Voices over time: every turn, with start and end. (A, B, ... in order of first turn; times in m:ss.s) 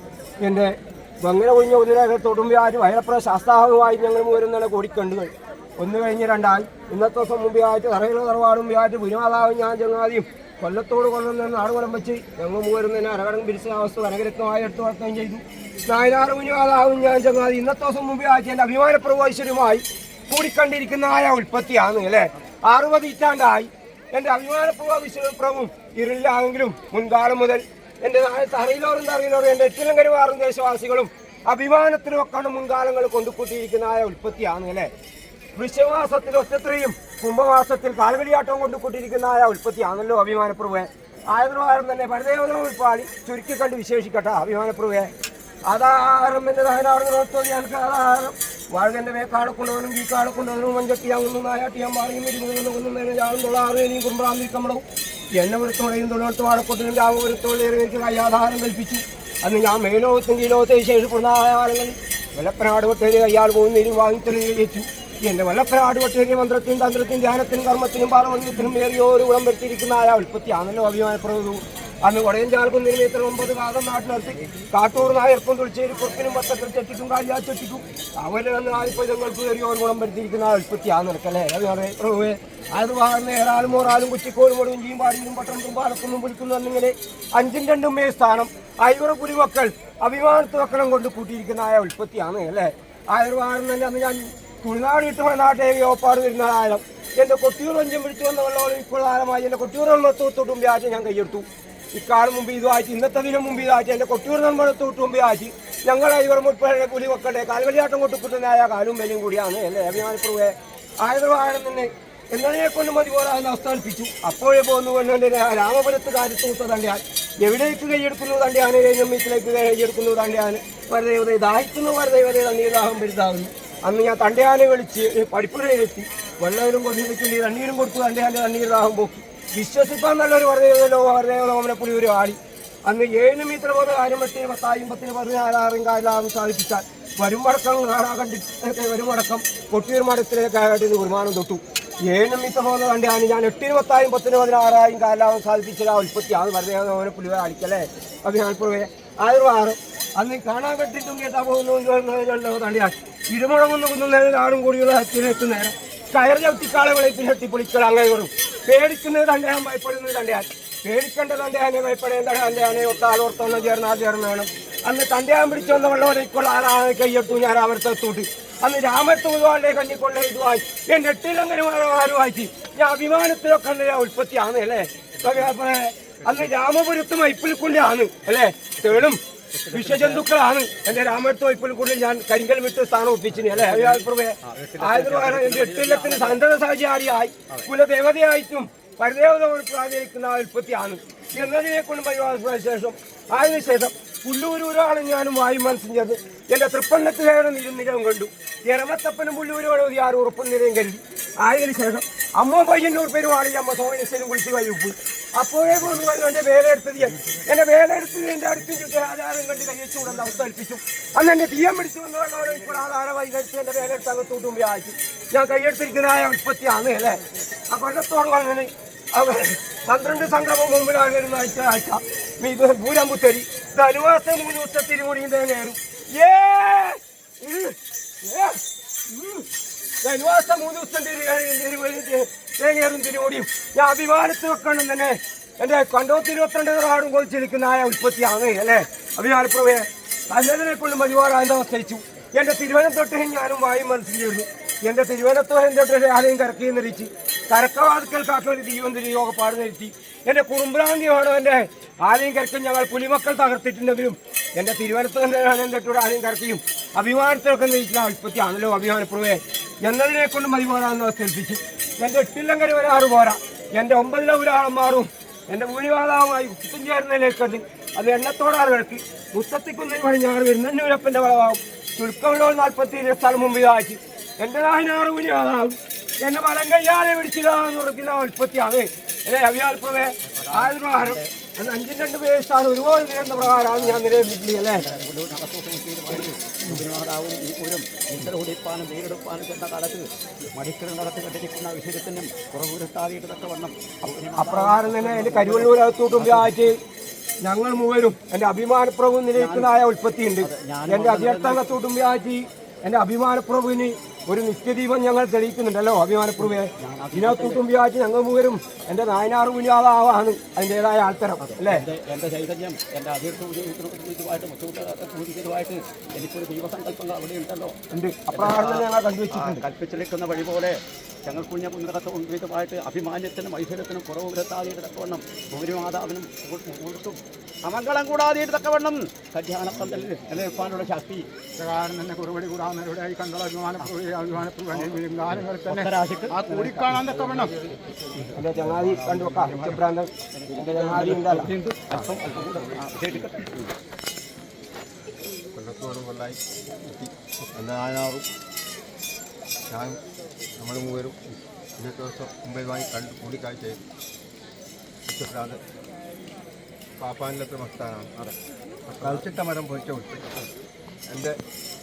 0:00.4-0:34.9 A
0:35.6-0:45.1 A
0:45.7-0:54.8 A
0:55.4-2:59.2 A
2:59.5-3:00.3 B
2:59.7-3:37.2 A
3:03.5-3:06.4 B
3:37.7-3:49.4 A
3:50.0-4:44.8 A
4:40.3-4:41.3 B
4:43.7-4:44.1 B
4:44.8-4:56.5 B
4:54.4-4:56.8 A
4:57.4-5:11.8 A
4:59.3-4:59.7 B
5:00.4-5:01.7 B
5:06.8-5:07.6 B
5:11.4-5:17.8 B
5:17.9-5:19.6 A
5:18.3-5:31.2 B
5:31.6-5:37.5 C
5:35.7-5:37.4 B
5:38.3-5:41.5 A
5:38.5-5:39.8 C
5:40.3-5:43.7 B
5:42.1-5:43.1 D
5:45.5-5:48.2 D
5:49.7-5:50.0 D
5:50.6-5:51.2 D
5:51.8-5:53.8 D
5:55.1-5:55.6 D
5:57.0-5:58.3 D
5:58.9-6:00.3 D
6:01.1-6:01.4 D